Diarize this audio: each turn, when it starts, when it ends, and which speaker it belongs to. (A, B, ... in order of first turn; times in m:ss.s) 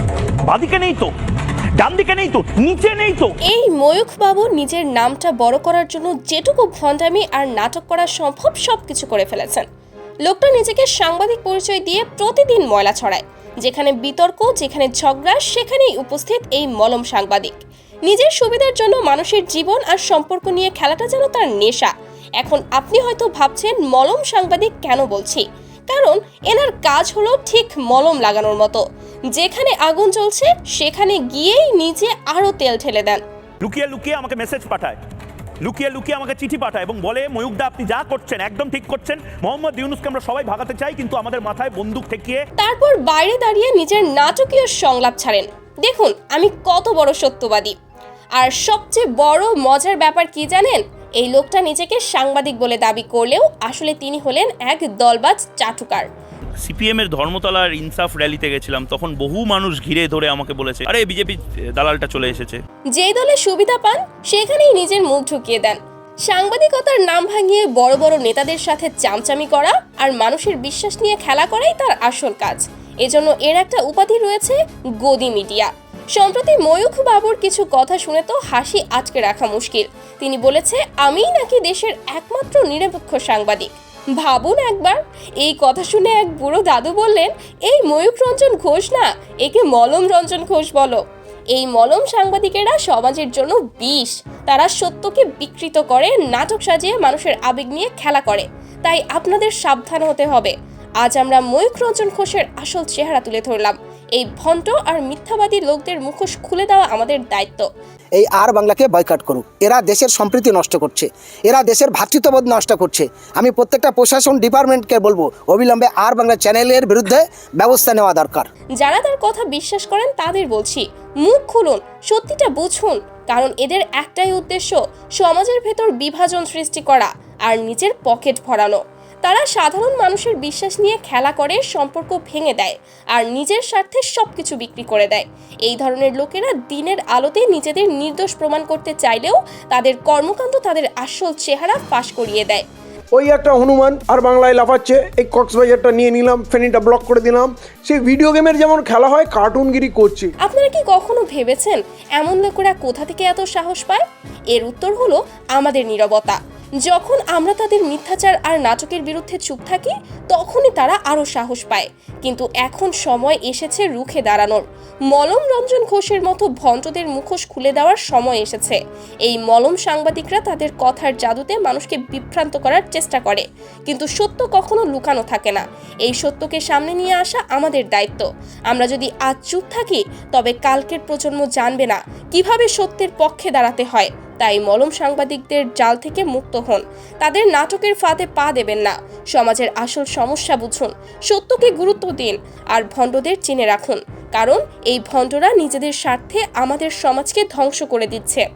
0:00.4-0:01.1 A
0:01.8-0:03.3 A
0:03.5-0:09.6 B
0:10.2-0:17.6 B
0:18.1-0:33.2 B
0:33.6-0:35.0 A
0:35.6-0:42.4 A
0:42.6-0:47.7 B
0:48.4-0:56.1 B
0:56.6-1:02.6 A
1:02.9-1:31.0 B
1:31.5-1:47.7 B
1:48.2-1:58.5 C
1:58.8-2:22.6 B
2:23.1-2:30.3 D
2:30.4-3:18.4 B